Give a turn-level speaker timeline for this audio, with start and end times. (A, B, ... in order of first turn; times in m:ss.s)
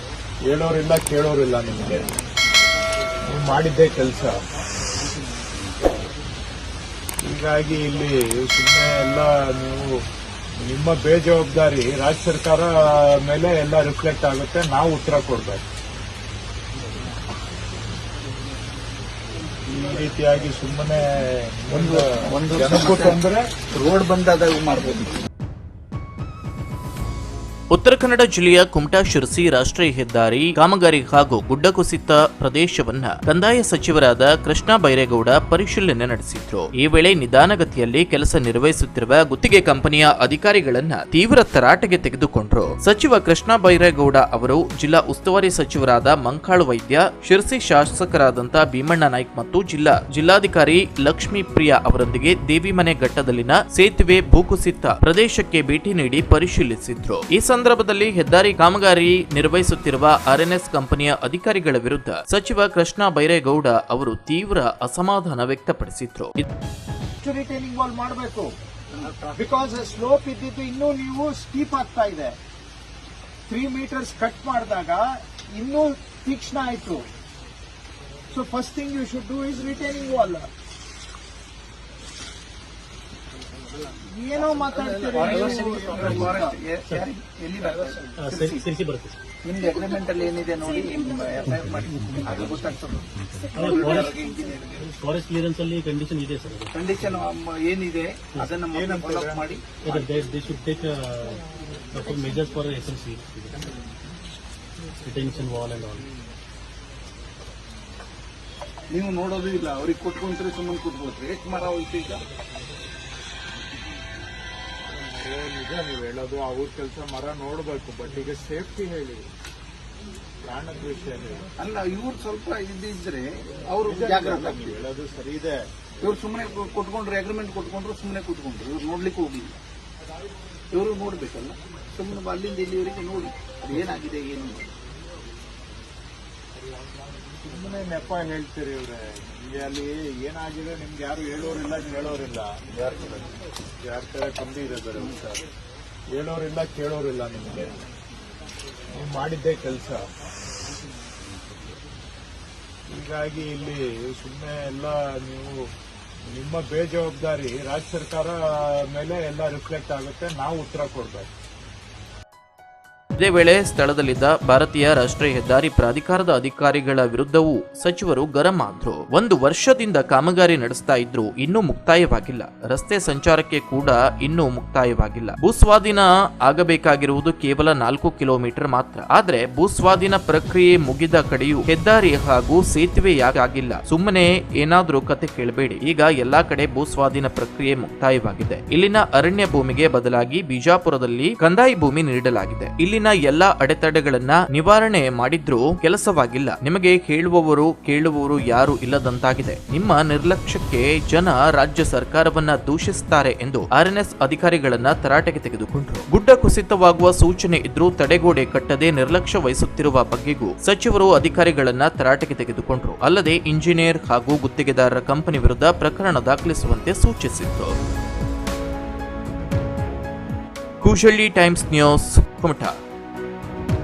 0:00.5-0:02.1 A
0:03.3-0:04.4 A
0:07.2-0:09.9 A
0:10.7-0:12.7 A
0:13.3-0:15.6 A
0:19.7-0:21.0 A
0:21.6-0:22.0 A
0:21.7-0:23.2 B
0:22.5-0:23.5 A
0:23.7-0:25.1 B
0:27.7-1:06.5 C
1:07.2-1:08.5 D
1:09.1-1:09.4 B
1:09.4-1:12.4 D
1:13.5-1:15.0 D
1:15.6-1:17.0 D
1:18.3-1:20.4 D
1:24.2-1:26.5 D
1:24.8-1:28.7 B
1:26.0-1:27.1 E
1:28.1-1:29.2 E
1:29.4-1:34.9 B
1:33.5-1:34.1 E
1:34.8-1:37.1 E
1:36.7-1:40.0 B
1:38.7-1:39.4 A
1:39.8-1:43.7 E
1:45.0-1:46.1 E
1:46.0-1:46.3 A
1:48.9-1:52.2 B
1:54.9-1:59.2 A
2:00.5-2:01.5 A
2:01.6-2:04.8 B
2:03.8-2:05.6 A
2:06.0-2:09.5 B
2:10.7-2:14.7 B
2:17.4-2:23.2 A
2:23.8-2:25.4 A
2:26.2-2:27.8 A
2:29.0-2:30.0 A
2:32.9-2:35.5 A
2:36.3-2:38.4 A
2:38.9-2:41.3 A
2:43.2-3:37.8 C
3:40.8-3:42.7 C